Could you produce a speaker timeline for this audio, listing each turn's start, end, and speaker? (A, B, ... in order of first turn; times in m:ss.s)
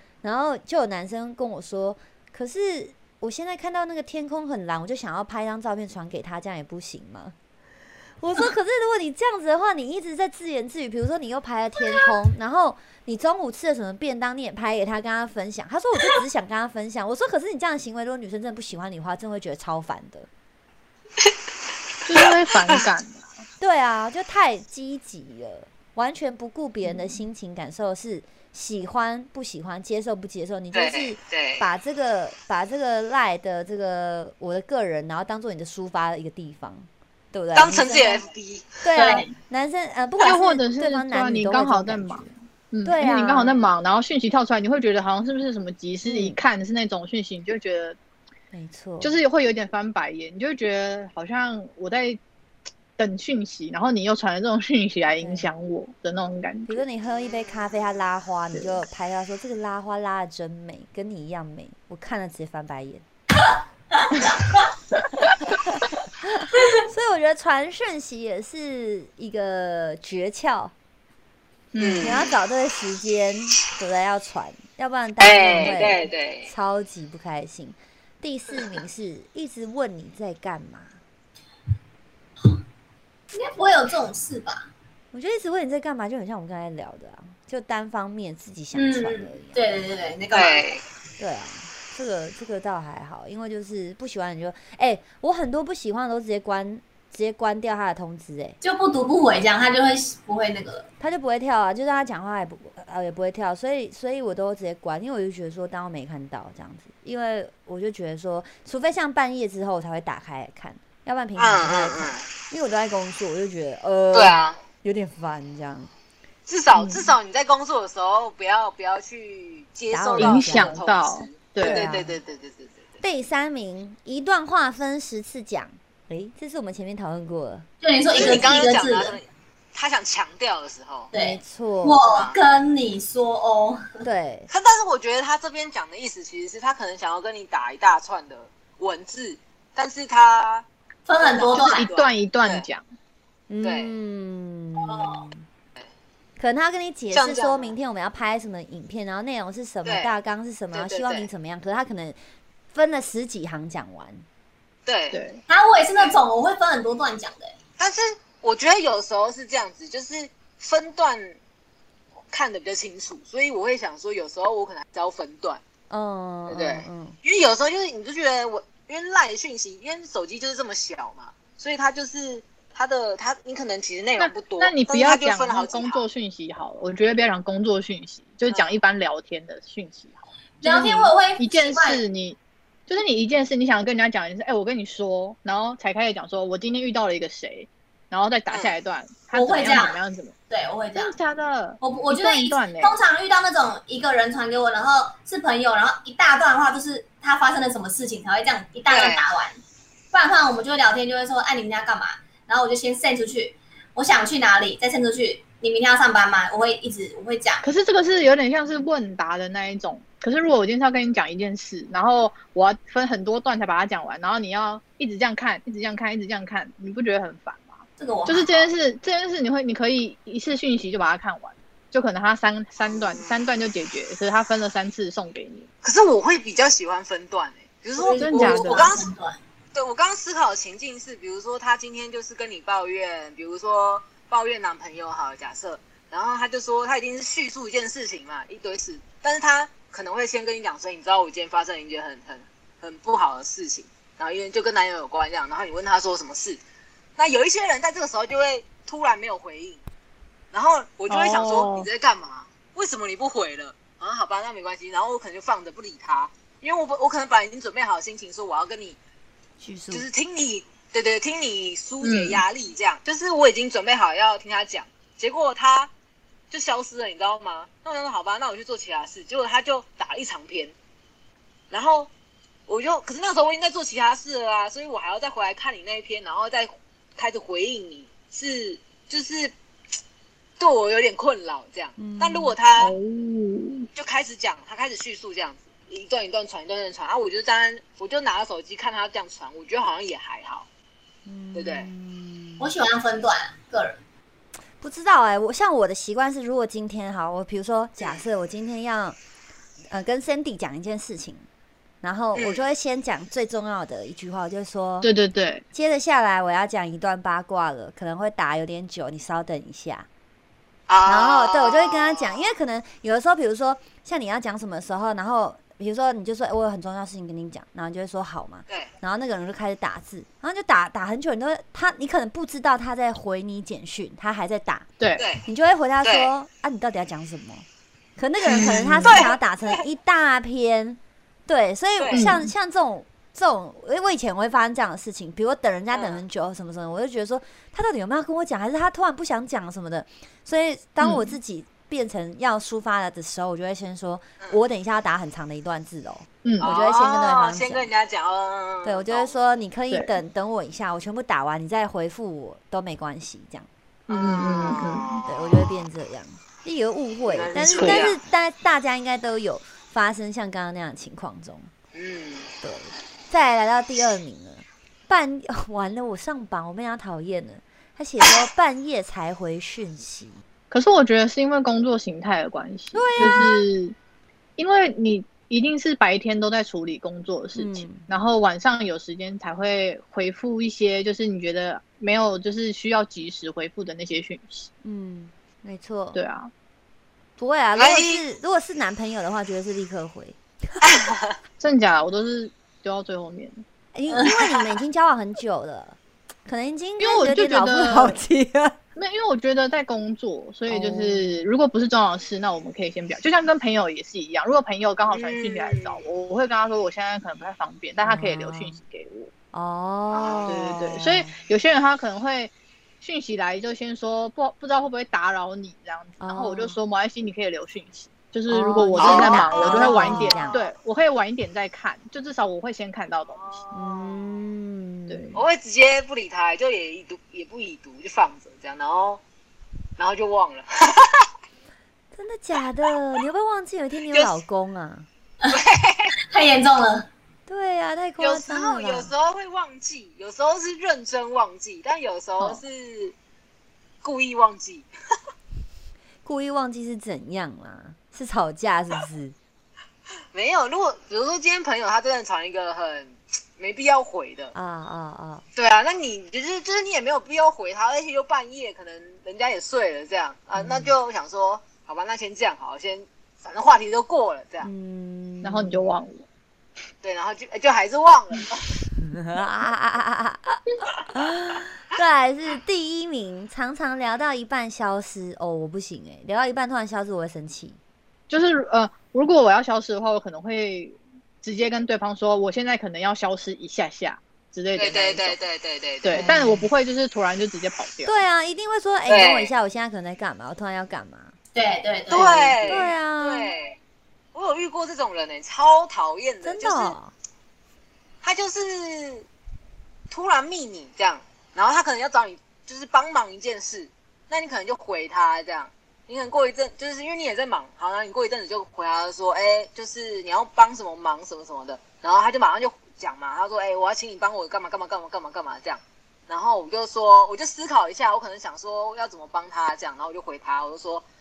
0:00.2-0:07.4 A
0:08.2-0:20.3 A
0:22.1-0:23.3 B
0:22.2-0:22.8 C
0:23.6-0:38.2 A
0:26.8-0:27.2 B
0:30.7-0:31.6 C
0:37.5-0:38.8 C
0:38.8-0:42.3 A
0:39.0-0:39.3 D
0:40.2-0:48.0 B
0:42.8-0:43.6 A
0:46.0-0:46.4 A
0:48.5-0:49.2 A
0:49.0-0:52.2 B
0:53.0-0:56.8 B
0:55.2-0:55.5 A
0:56.7-1:03.0 A
1:05.5-1:10.7 A
1:11.7-1:12.3 B
1:11.8-1:12.4 C
1:12.0-1:21.0 A
1:15.2-1:16.5 C
1:23.3-1:24.7 D
1:25.1-1:29.6 A
1:28.7-1:30.7 D
1:30.3-1:30.8 C
1:31.2-1:38.6 A
1:38.6-1:40.9 D
1:41.0-1:55.9 A
1:51.4-1:52.3 C
1:54.1-1:54.6 C
1:56.5-2:02.9 C
1:56.7-1:57.1 B
1:59.9-2:00.8 A
2:00.2-2:01.9 B
2:01.6-2:02.2 A
2:03.0-2:07.7 A
2:07.8-2:09.2 D
2:08.1-2:11.1 C
2:11.1-2:12.0 A
2:11.1-2:14.0 D
2:12.0-2:12.4 C
2:14.0-2:14.5 A
2:14.5-2:20.6 C
2:21.1-2:21.8 D
2:21.2-2:22.7 C
2:21.5-2:22.8 B
2:23.5-2:25.5 A
2:23.6-2:23.9 C
2:24.8-2:25.3 D
2:26.4-2:32.2 A
2:27.1-2:27.8 C
2:29.8-2:30.1 C
2:30.7-2:31.3 C
2:32.7-2:34.2 A
2:34.9-2:35.2 C
2:35.1-2:35.4 B
2:35.5-2:37.6 D
2:35.9-2:36.2 C
2:37.8-2:41.4 C
2:42.3-2:45.6 C
2:45.9-2:47.2 A
2:46.5-2:56.0 C
2:54.2-3:10.4 B
2:58.5-2:58.8 C
3:00.6-3:02.0 D
3:08.5-3:08.8 C
3:09.3-3:10.0 D
3:10.5-3:11.2 D
3:11.0-3:13.0 B
3:11.8-3:19.6 D
3:18.9-3:19.3 C
3:20.1-3:27.6 D
3:27.6-3:45.7 B
3:38.0-3:38.7 D
3:42.9-3:43.4 C
3:45.8-3:49.1 C
3:48.0-3:49.4 D
3:48.0-3:49.0 B
3:49.7-4:06.6 C
4:07.2-4:09.8 C
4:10.5-4:19.0 C
4:11.1-4:11.9 B
4:19.6-4:20.1 A
4:19.9-4:25.9 C
4:22.0-4:22.4 B
4:26.5-4:30.7 C
4:31.7-4:32.1 C
4:32.7-4:39.5 C
4:40.6-4:43.0 C
4:42.0-4:42.6 A
4:42.8-4:43.9 B
4:44.0-4:50.7 C
4:51.3-4:52.7 A
4:51.5-4:51.9 C
4:52.6-4:54.0 D
4:54.8-4:59.2 A
4:58.0-4:58.2 C
4:59.9-5:01.5 A
5:02.0-5:05.1 A
5:02.4-5:02.7 C
5:05.0-5:05.6 B
5:05.7-5:10.1 A
5:10.9-5:12.5 C
5:11.1-5:24.9 A
5:25.0-5:25.3 B
5:25.2-5:25.5 C
5:25.4-5:27.6 A
5:26.0-5:26.3 C
5:28.2-5:47.9 A
5:28.5-5:29.3 B
5:28.5-5:29.8 C
5:32.0-5:32.4 C
5:32.1-5:32.5 B
5:35.9-5:36.2 C
5:41.0-5:41.3 B
5:46.4-5:46.7 B
5:46.6-5:49.3 C
5:48.8-5:53.7 A
5:49.9-5:50.2 B
5:54.1-5:55.1 B
5:54.1-5:55.8 C
5:55.2-6:01.7 A
5:57.3-5:58.2 C
5:57.6-5:58.1 B
6:01.9-6:02.5 C
6:02.6-6:10.4 A
6:10.7-6:14.0 B
6:12.9-6:13.5 A
6:14.6-6:24.7 B
6:17.6-6:18.1 A
6:24.8-6:26.2 A
6:26.2-6:26.5 B
6:27.4-6:30.4 A
6:27.8-6:28.2 C
6:30.8-6:31.3 C
6:31.6-6:33.6 B
6:34.0-6:38.8 A
6:37.0-6:38.2 B
6:39.0-6:49.3 B
6:40.7-6:41.4 A
6:45.1-6:46.0 C
6:48.0-6:48.8 A
6:49.5-6:51.4 A
6:50.1-6:50.8 C
6:50.5-7:03.6 B
6:56.2-6:56.8 A
6:58.5-7:00.6 A
6:59.0-7:00.7 C
7:03.3-7:04.4 C
7:03.7-7:05.4 A
7:05.3-7:09.2 C
7:10.0-7:11.3 C
7:12.1-7:15.1 A
7:14.1-7:14.4 C
7:15.5-7:16.1 C
7:16.3-7:17.1 D
7:17.5-7:19.1 A
7:18.2-7:23.2 C
7:22.4-7:22.6 A
7:24.0-7:24.9 C
7:26.2-7:29.4 A
7:30.3-7:34.5 C
7:34.5-7:35.4 A
7:35.6-7:44.7 C
7:40.6-7:41.0 A
7:44.6-7:45.8 A
7:45.4-7:46.3 B
7:47.0-7:48.8 C
7:49.0-7:57.8 A
7:58.3-8:05.4 B
8:04.8-8:06.4 C
8:06.0-8:08.2 B
8:06.1-8:06.7 A
8:08.1-8:11.3 A
8:09.1-8:09.5 C
8:11.6-8:12.8 D
8:12.1-8:13.8 C
8:12.6-8:13.5 A
8:14.3-8:17.0 C
8:16.4-8:17.1 A
8:18.2-8:19.3 C
8:20.1-8:41.0 C